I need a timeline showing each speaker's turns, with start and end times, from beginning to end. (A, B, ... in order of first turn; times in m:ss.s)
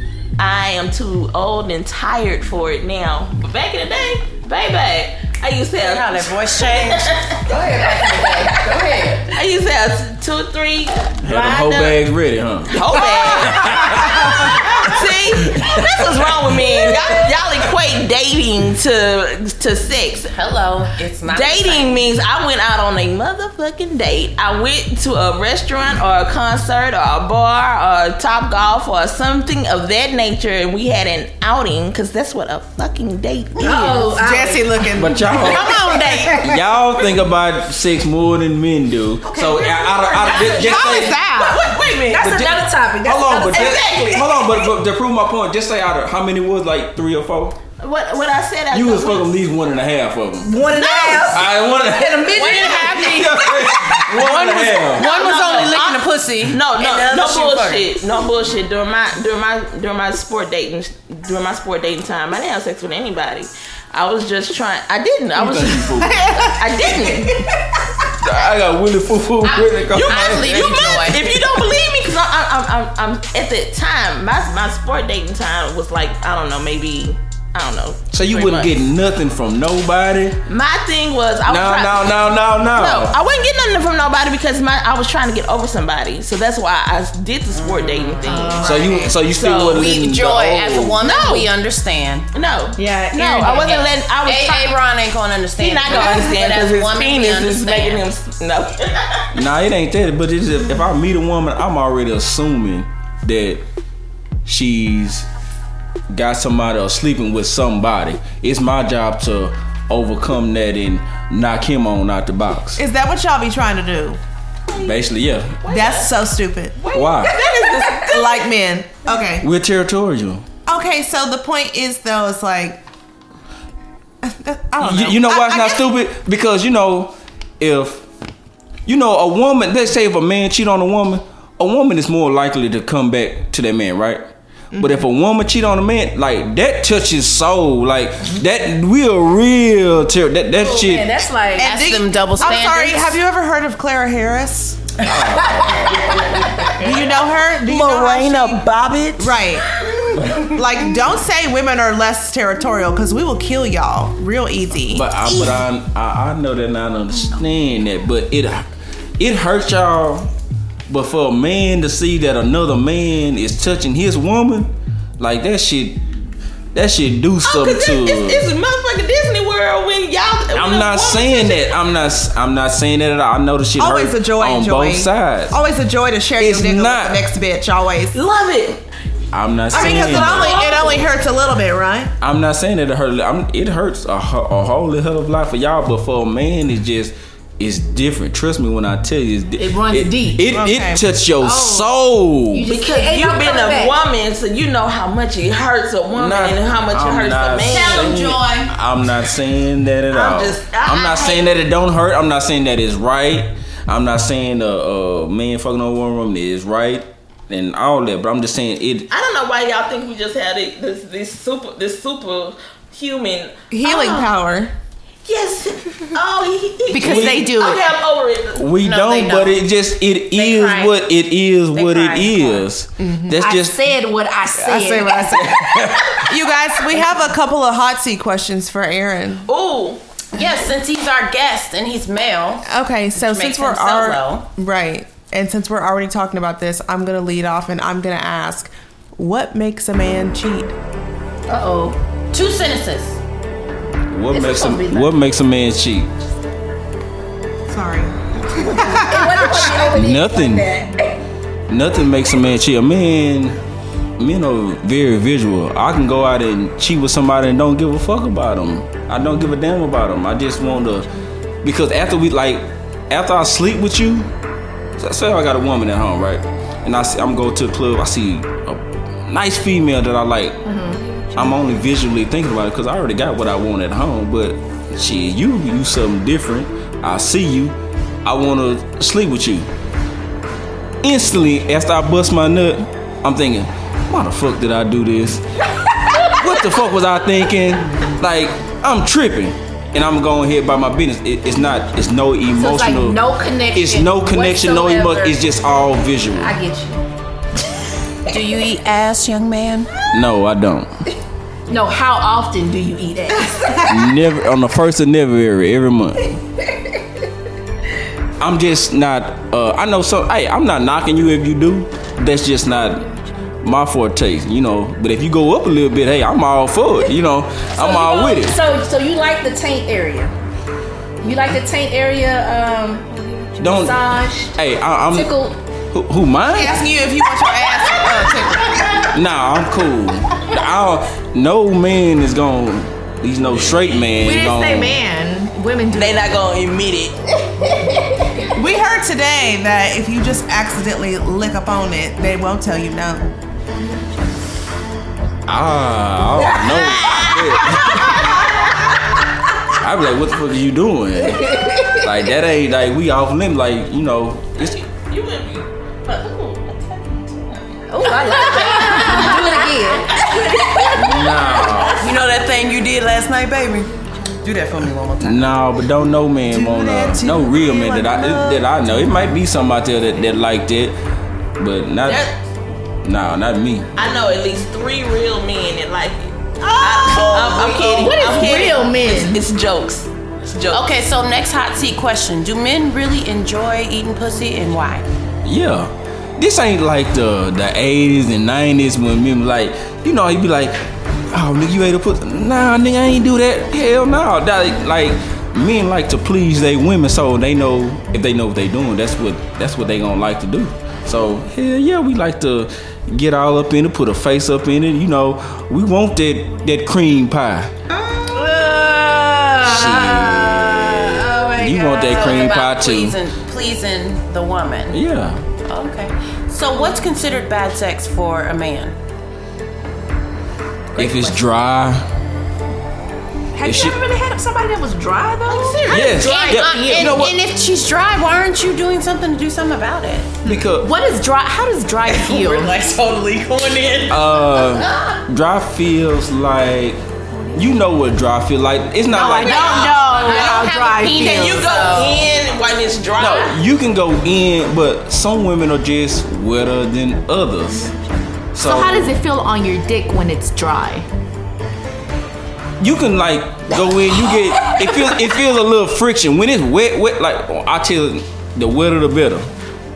0:00.4-0:08.5 A
0:05.8-0:09.3 B
0:09.3-0:12.0 A
0:11.2-0:16.8 C
0:12.7-0:20.3 A
0:16.8-0:17.3 B
0:20.3-0:22.1 B
0:21.3-0:34.2 A
0:33.6-0:34.9 D
0:34.2-0:36.6 E
0:35.0-0:35.7 C
0:35.6-0:36.4 B
0:36.4-0:41.2 C
0:40.1-0:42.5 A
0:40.3-0:44.2 D
0:40.5-0:41.6 E
0:42.2-0:47.6 C
0:43.4-0:44.7 A
0:47.8-0:49.4 A
0:48.7-0:55.2 C
0:50.4-0:54.0 D
0:50.8-0:51.2 A
0:52.3-0:53.5 B
0:54.1-0:57.9 B
0:54.9-1:07.5 A
1:05.4-1:06.2 C
1:06.2-1:06.5 E
1:08.2-1:11.1 C
1:09.4-1:11.3 B
1:10.0-1:18.8 A
1:18.1-1:20.4 C
1:20.5-1:29.9 A
1:21.5-1:23.2 C
1:27.5-1:28.7 B
1:28.2-1:29.1 D
1:28.6-1:31.0 C
1:28.6-1:29.0 E
1:29.7-1:32.3 B
1:31.0-1:31.5 A
1:32.3-1:34.8 A
1:32.8-1:33.9 D
1:33.5-1:38.0 B
1:35.6-1:39.3 A
1:39.3-1:43.6 C
1:44.4-1:45.3 C
1:46.1-1:52.8 C
1:52.8-1:54.2 E
1:54.7-1:55.0 A
1:54.8-1:55.6 C
1:55.6-1:56.1 A
1:55.7-1:56.8 E
1:56.8-1:58.5 A
1:56.9-1:57.4 C
1:57.8-1:59.5 E
1:59.4-2:00.4 C
2:00.7-2:02.8 E
2:04.2-2:05.9 E
2:04.8-2:08.1 C
2:08.9-2:21.1 C
2:14.7-2:15.0 E
2:20.5-2:21.8 D
2:21.6-2:25.0 E
2:21.6-2:23.2 B
2:25.0-2:26.1 C
2:25.3-2:25.7 D
2:26.8-2:29.6 E
2:27.7-2:29.1 A
2:30.4-2:35.1 E
2:34.9-2:38.7 C
2:39.2-2:40.3 C
2:40.9-2:46.0 C
2:46.7-2:48.5 C
2:47.4-2:51.8 A
2:50.5-2:55.6 C
2:53.8-2:58.2 E
2:56.4-2:57.2 C
2:58.1-2:58.8 A
2:59.3-3:00.6 C
2:59.7-3:01.1 A
2:59.7-3:02.1 E
3:02.2-3:12.7 C
3:09.6-3:10.5 D
3:10.5-3:11.0 E
3:11.4-3:12.0 D
3:12.5-3:14.0 D
3:12.7-3:18.2 A
3:16.1-3:29.1 C
3:17.7-3:18.6 B
3:20.1-3:21.6 A
3:29.1-3:34.3 A
3:33.7-3:34.7 E
3:35.2-3:38.7 A
3:36.9-3:37.8 F
3:37.0-3:37.5 C
3:38.6-3:43.9 C
3:38.8-3:39.6 B
3:40.3-3:41.0 B
3:41.7-3:42.7 B
3:43.0-3:43.4 E
3:43.4-3:45.6 D
3:44.6-3:49.5 E
3:45.3-3:46.3 C
3:49.5-3:50.0 A
3:50.3-3:54.5 B
3:52.7-4:00.8 E
4:01.5-4:02.0 D
4:02.3-4:03.2 B
4:04.1-4:06.1 C
4:04.3-4:05.2 D
4:07.7-4:09.9 E
4:08.7-4:11.2 D
4:09.6-4:10.7 C
4:11.7-4:13.6 C
4:14.2-4:21.1 C
4:21.6-4:24.3 C
4:25.0-4:30.7 C
4:30.6-4:31.0 D
4:31.4-4:39.7 C
4:41.0-4:45.4 C
4:46.3-4:56.6 C
4:52.5-4:55.6 D
4:56.3-4:57.0 D
4:58.3-4:59.9 B
5:00.1-5:00.9 C
5:01.7-5:04.0 D
5:03.9-5:06.4 C
5:08.4-5:18.6 C
5:17.7-5:20.3 D
5:21.2-5:25.6 D
5:23.6-5:25.4 C
5:25.9-5:26.8 C
5:26.4-5:29.0 E
5:29.1-5:35.0 C
5:34.1-5:36.3 D
5:35.9-5:37.2 A
5:38.6-5:43.3 E
5:45.5-5:48.4 C
5:49.8-5:54.8 C
5:51.4-5:52.1 D
5:54.6-6:00.3 A
5:57.9-6:01.4 D
6:00.9-6:02.2 C
6:02.0-6:05.6 B
6:05.2-6:11.0 C
6:06.4-6:08.7 E
6:11.6-6:12.3 C
6:12.0-6:12.4 A
6:13.0-6:13.9 C
6:14.0-6:20.9 A
6:16.8-6:19.4 D
6:20.7-6:25.0 B
6:25.4-6:47.7 C
6:48.3-6:52.3 D
6:49.6-6:53.2 C
6:51.9-6:55.0 B
6:54.9-6:55.4 C
6:55.6-6:59.0 B
7:01.0-7:02.1 C
7:01.0-7:01.4 D
7:03.5-7:07.2 D
7:03.6-7:04.0 C
7:05.5-7:07.0 A
7:05.9-7:07.4 C
7:05.9-7:10.4 B
7:10.4-7:10.9 C
7:10.6-7:12.3 D
7:10.8-7:12.7 F
7:12.0-7:15.2 B
7:14.1-7:17.0 C
7:17.5-7:19.9 C
7:19.1-7:21.7 D
7:19.3-7:22.3 B
7:19.5-7:23.6 A
7:20.6-7:21.2 F
7:23.2-7:27.9 C
7:28.5-7:29.1 C
7:28.6-7:31.1 F
7:32.8-7:39.5 C